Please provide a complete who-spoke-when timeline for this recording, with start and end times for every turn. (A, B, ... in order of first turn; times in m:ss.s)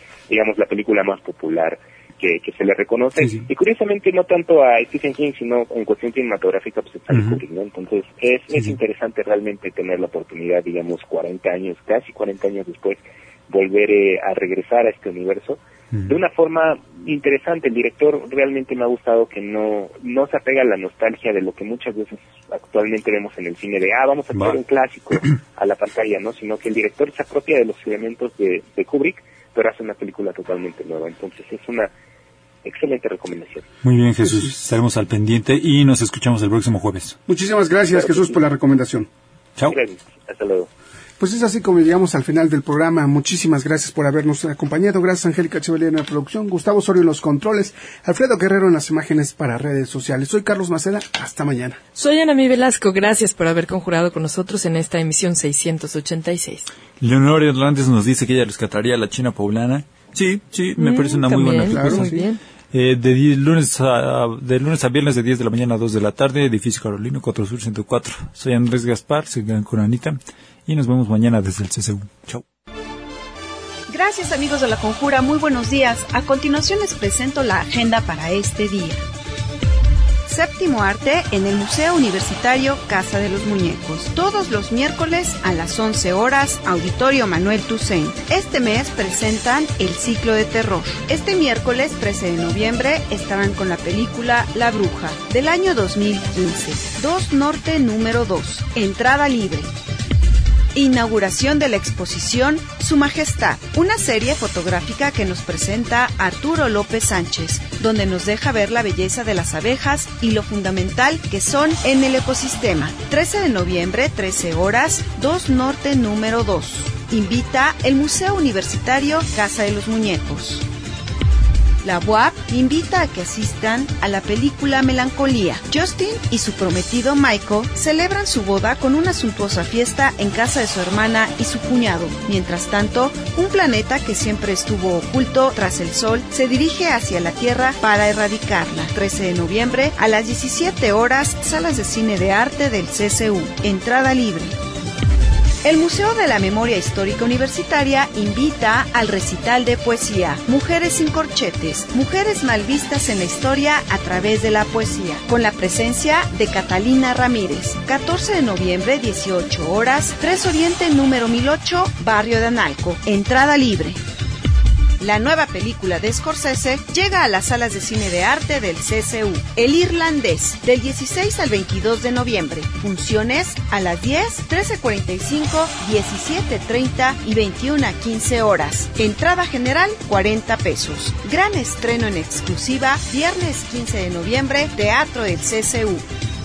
0:00.3-0:31.9 A
0:32.6-0:33.7 A
0:33.8-0:37.2 B
0:34.2-0:34.5 C
0:37.3-0:39.1 C
0:37.9-0:38.4 A
0:39.6-0:40.7 A
0:41.2-0:51.8 C
0:52.0-0:56.7 D
0:57.0-1:02.1 B
1:00.8-1:02.4 D
1:01.7-1:02.2 C
1:02.7-1:12.4 B
1:13.9-1:19.0 E
1:20.3-1:39.7 E
1:40.8-2:00.6 E
2:01.8-2:24.6 E
2:25.6-2:44.0 E
2:45.0-3:06.0 E